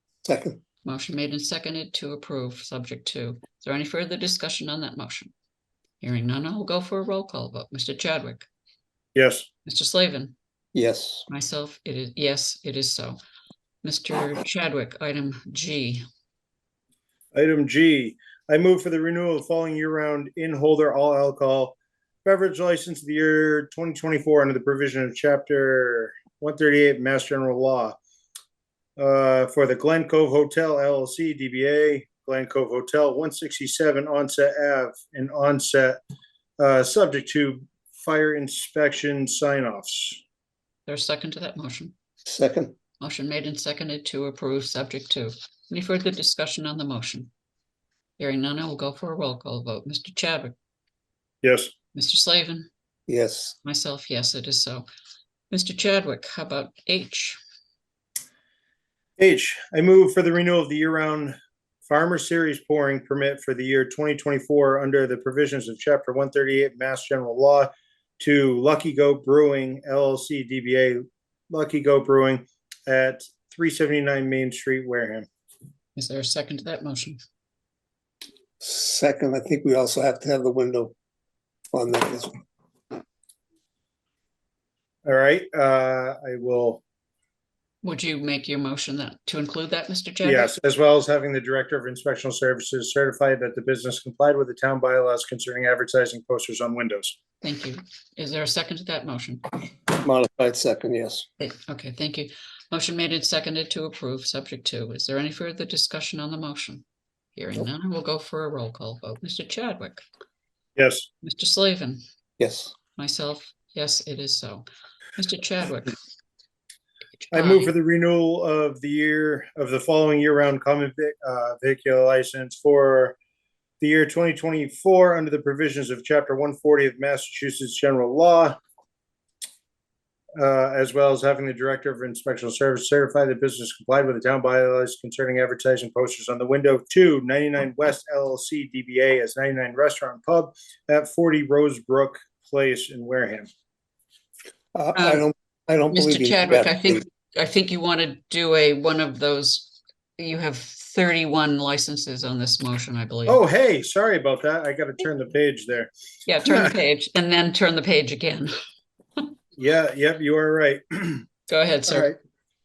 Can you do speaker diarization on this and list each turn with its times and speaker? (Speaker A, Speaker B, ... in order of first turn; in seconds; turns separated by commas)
Speaker A: 0.2-0.6, Speaker B: 0.8-5.3, Speaker B: 6.0-8.5, Speaker C: 9.2-9.5, Speaker B: 9.7-10.3, Speaker A: 10.7-11.3, Speaker B: 11.3-13.2, Speaker B: 13.8-16.0, Speaker C: 17.3-28.0, Speaker C: 29.0-36.0, Speaker C: 36.6-40.2, Speaker B: 40.9-41.9, Speaker A: 42.2-42.8, Speaker B: 43.0-47.3, Speaker B: 48.2-50.5, Speaker C: 51.4-51.7, Speaker B: 52.0-52.7, Speaker A: 53.1-53.6, Speaker B: 53.6-54.9, Speaker B: 55.5-57.4, Speaker C: 59.2-61.4, Speaker C: 61.9-75.3, Speaker B: 76.0-77.2, Speaker A: 78.6-81.0, Speaker A: 81.7-82.4, Speaker C: 85.1-86.8, Speaker B: 87.8-90.5, Speaker C: 90.2-97.2, Speaker B: 97.4-99.4, Speaker A: 99.9-101.3, Speaker B: 101.4-106.8, Speaker B: 107.4-110.0, Speaker C: 110.8-111.1, Speaker B: 111.2-112.0, Speaker A: 112.4-112.7, Speaker B: 113.0-114.7, Speaker B: 115.2-116.0, Speaker B: 117.2-117.7, Speaker C: 117.3-123.2, Speaker C: 123.8-128.6, Speaker C: 130.4-143.5, Speaker A: 144.8-147.0, Speaker B: 144.9-145.3, Speaker B: 145.9-153.4, Speaker C: 153.3-155.9, Speaker B: 156.3-158.5, Speaker C: 156.5-156.7, Speaker C: 159.6-161.3, Speaker B: 161.5-162.1, Speaker C: 161.9-162.2